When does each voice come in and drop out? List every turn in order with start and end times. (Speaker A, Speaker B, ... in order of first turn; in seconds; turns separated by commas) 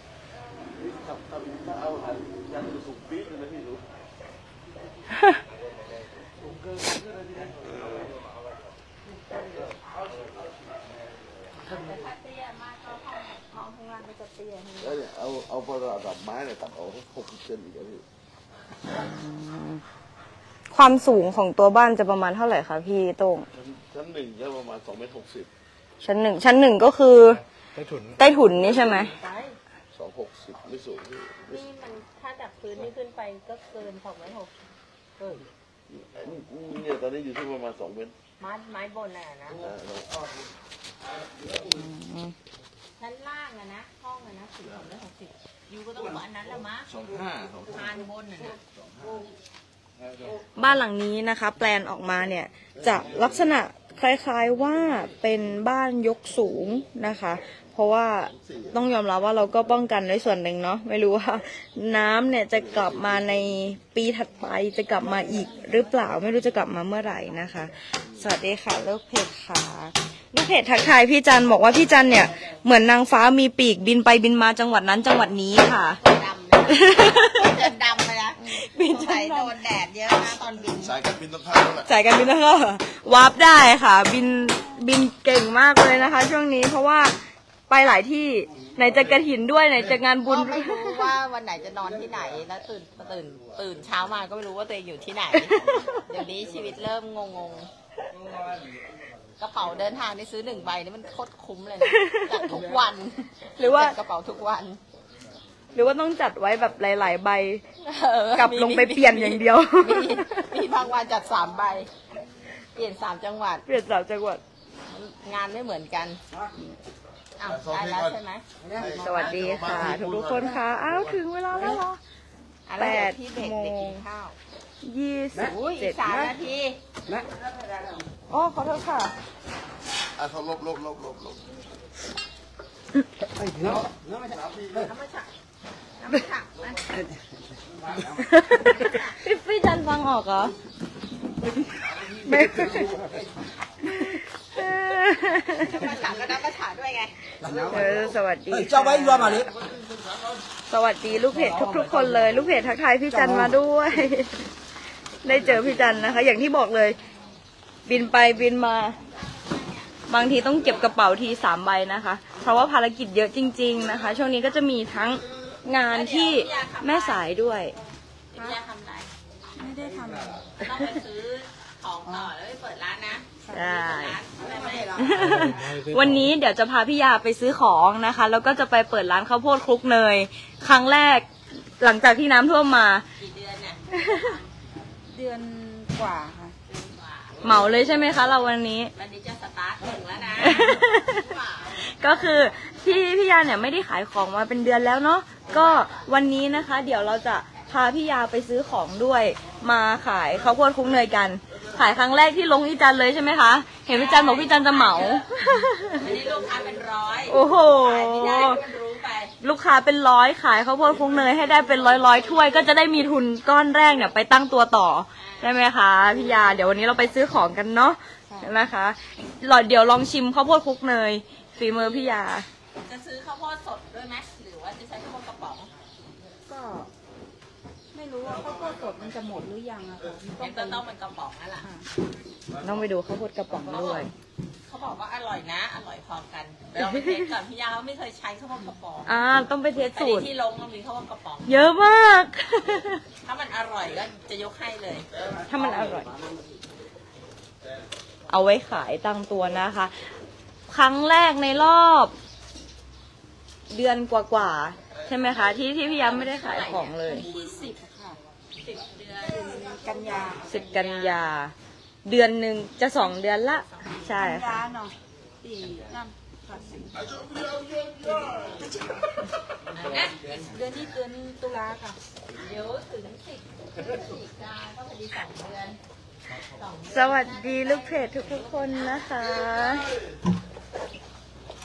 Speaker A: 0.8-3.9, Speaker A: 7.6-8.1, Speaker B: 11.6-15.0, Speaker A: 14.8-18.1, Speaker C: 18.9-19.8, Speaker C: 20.7-23.5, Speaker A: 23.5-25.5, Speaker C: 26.0-27.4, Speaker D: 27.8-28.2, Speaker C: 28.2-29.1, Speaker B: 28.6-29.6, Speaker A: 29.9-31.6, Speaker B: 31.5-34.5, Speaker B: 35.2-35.5, Speaker A: 35.9-38.1, Speaker B: 38.4-39.6, Speaker A: 39.6-40.2, Speaker C: 41.7-42.4, Speaker B: 43.0-46.9, Speaker A: 46.9-47.8, Speaker B: 47.7-48.6, Speaker A: 48.8-49.1, Speaker C: 50.6-76.0, Speaker B: 75.9-81.0, Speaker C: 76.7-77.6, Speaker C: 78.5-79.5, Speaker A: 80.8-81.9, Speaker C: 81.9-87.2, Speaker C: 87.7-91.1, Speaker B: 90.2-97.7, Speaker C: 95.5-95.9, Speaker B: 99.4-104.8, Speaker C: 101.8-102.5, Speaker C: 103.6-104.0, Speaker C: 105.7-107.6, Speaker B: 107.8-111.9, Speaker C: 108.4-110.4, Speaker B: 112.8-113.7, Speaker C: 113.7-114.4, Speaker B: 114.9-116.2, Speaker B: 117.4-119.5, Speaker A: 117.5-118.1, Speaker A: 118.8-121.1, Speaker C: 119.0-122.0, Speaker B: 122.7-124.4, Speaker C: 122.8-124.0, Speaker C: 124.8-126.3, Speaker B: 125.4-126.8, Speaker C: 128.3-129.1, Speaker A: 130.2-131.5, Speaker D: 133.4-133.8, Speaker A: 133.7-134.8, Speaker B: 134.8-135.3, Speaker B: 136.0-136.9, Speaker C: 138.1-140.6, Speaker B: 138.4-139.2, Speaker A: 142.0-142.9, Speaker C: 142.3-142.9, Speaker C: 143.8-145.9, Speaker B: 145.4-147.2, Speaker C: 147.7-149.5, Speaker C: 150.7-154.5, Speaker C: 155.2-157.0, Speaker C: 157.9-159.0, Speaker B: 159.3-159.9, Speaker C: 160.1-167.8, Speaker B: 165.9-167.3, Speaker B: 168.3-169.7, Speaker E: 169.6-170.5, Speaker B: 170.6-175.5, Speaker E: 172.1-172.3, Speaker C: 173.5-174.2, Speaker C: 174.9-181.3, Speaker D: 175.1-176.3, Speaker C: 181.8-183.1, Speaker B: 183.2-184.4, Speaker C: 183.9-184.3, Speaker E: 185.1-186.6, Speaker B: 186.7-187.4, Speaker C: 187.4-188.9, Speaker B: 188.9-191.9, Speaker C: 190.4-206.1, Speaker B: 195.5-196.1, Speaker B: 203.9-205.3, Speaker B: 205.9-209.3, Speaker C: 207.3-208.6, Speaker C: 209.4-222.5, Speaker B: 215.2-215.6, Speaker E: 218.3-218.6, Speaker B: 221.7-222.2, Speaker B: 222.8-225.7, Speaker E: 226.5-226.9, Speaker E: 227.9-230.8, Speaker B: 230.4-231.7, Speaker E: 231.6-231.9, Speaker C: 232.6-234.1, Speaker B: 233.7-234.1, Speaker B: 234.7-239.2, Speaker C: 236.8-237.3, Speaker C: 239.1-240.3, Speaker B: 239.8-241.7, Speaker C: 241.5-243.0, Speaker B: 243.2-245.1, Speaker C: 245.5-246.1, Speaker C: 248.3-250.1, Speaker C: 250.7-252.1, Speaker C: 253.7-257.3, Speaker B: 255.9-257.5, Speaker E: 257.1-258.2, Speaker B: 258.6-261.3, Speaker E: 259.3-260.5, Speaker C: 260.4-261.5, Speaker C: 262.1-264.6, Speaker B: 263.6-264.2, Speaker E: 264.1-267.0, Speaker A: 266.9-268.7, Speaker E: 268.6-268.9, Speaker B: 269.8-270.5, Speaker E: 270.4-272.0, Speaker B: 272.3-275.8, Speaker B: 276.4-279.2, Speaker C: 276.9-279.9